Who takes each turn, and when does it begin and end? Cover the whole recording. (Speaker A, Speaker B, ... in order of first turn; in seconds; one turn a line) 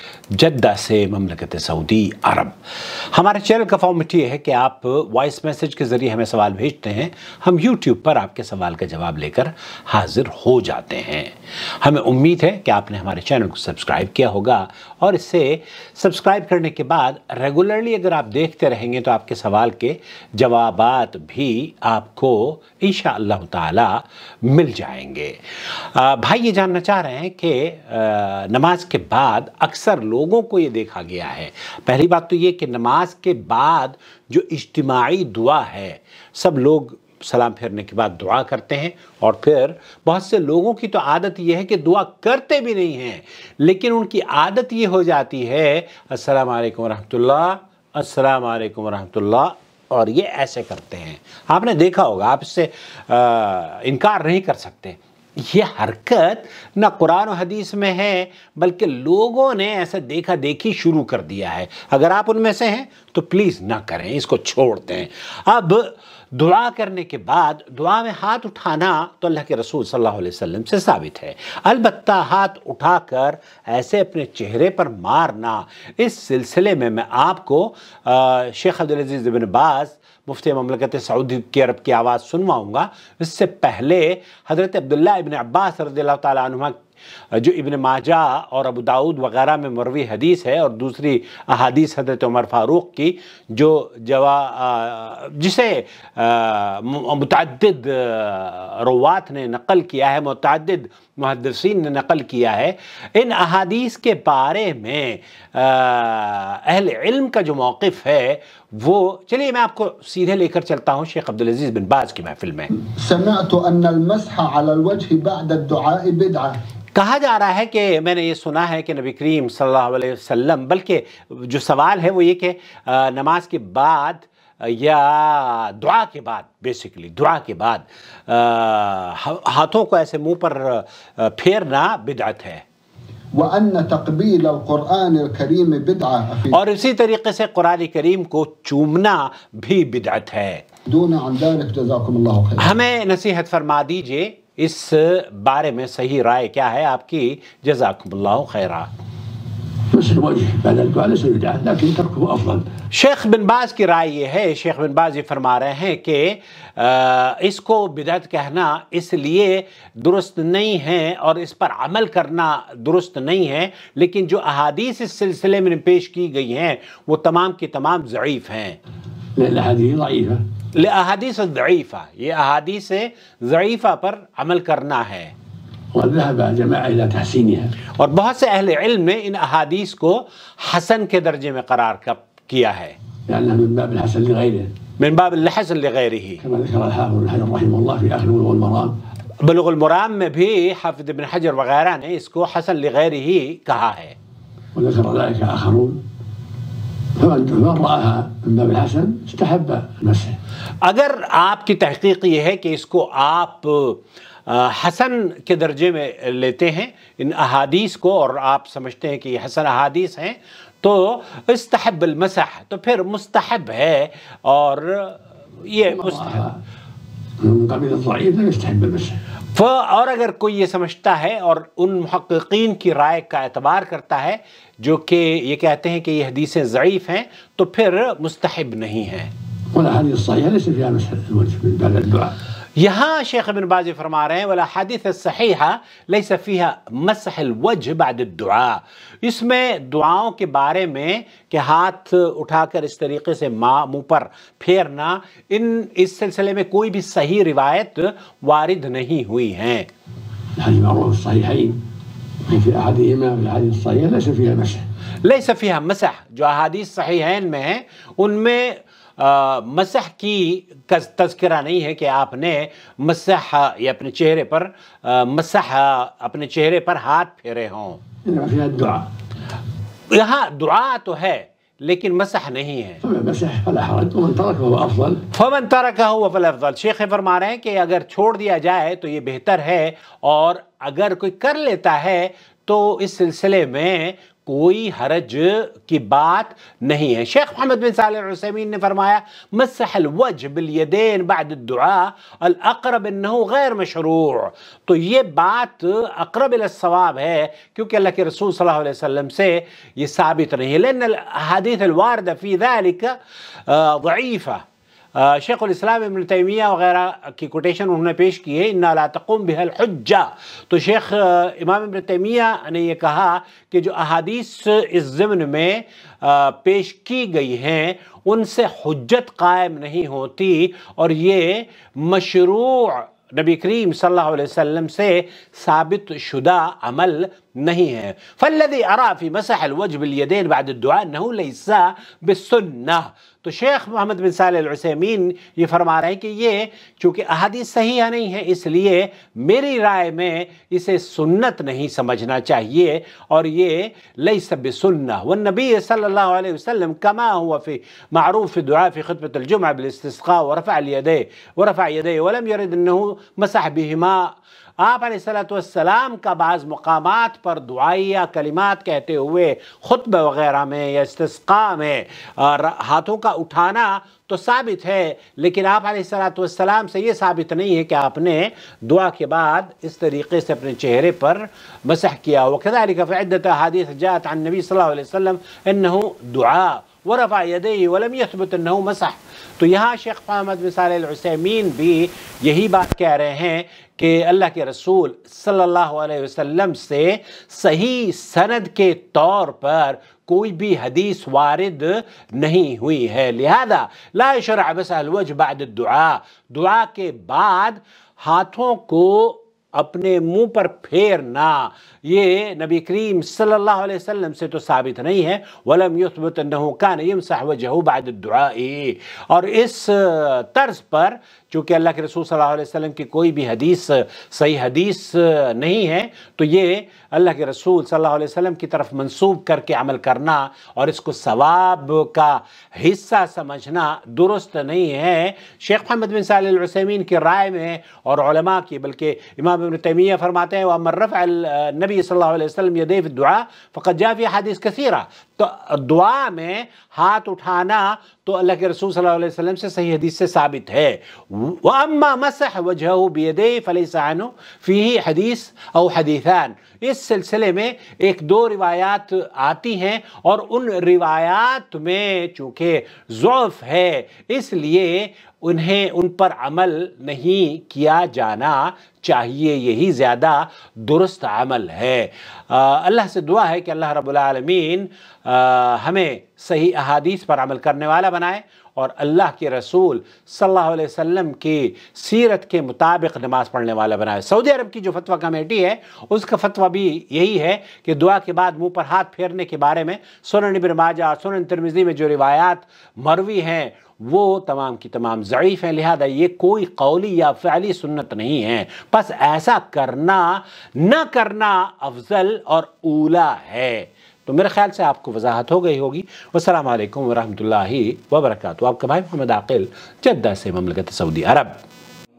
Speaker A: 0.3-112.7
Speaker B: 112.8-116.6
Speaker A: 116.9-132.6
Speaker B: 133.3-136.6
Speaker A: 136.5-140.6
Speaker B: 140.9-142.8
Speaker A: 142.6-148.9
Speaker C: 149.9-152.7
Speaker A: 152.9-168.8
Speaker C: 169.3-170.4
Speaker A: 170.7-175.3
Speaker C: 175.9-177.7
Speaker A: 177.9-182.9
Speaker C: 183.3-184.7
Speaker A: 185.0-186.4
Speaker C: 186.4-189.0
Speaker A: 189.4-194.2
Speaker C: 194.7-196.0
Speaker C: 197.2-200.4
Speaker A: 200.8-216.4
Speaker C: 215.9-216.6
Speaker C: 217.4-219.2
Speaker A: 219.5-229.3
Speaker C: 229.7-232.3
Speaker A: 232.8-249.9
Speaker C: 250.6-251.8
Speaker C: 252.4-254.9
Speaker A: 255.2-268.0
Speaker C: 268.2-269.1
Speaker A: 270.1-273.0
Speaker C: 273.0-275.2
Speaker A: 275.3-501.6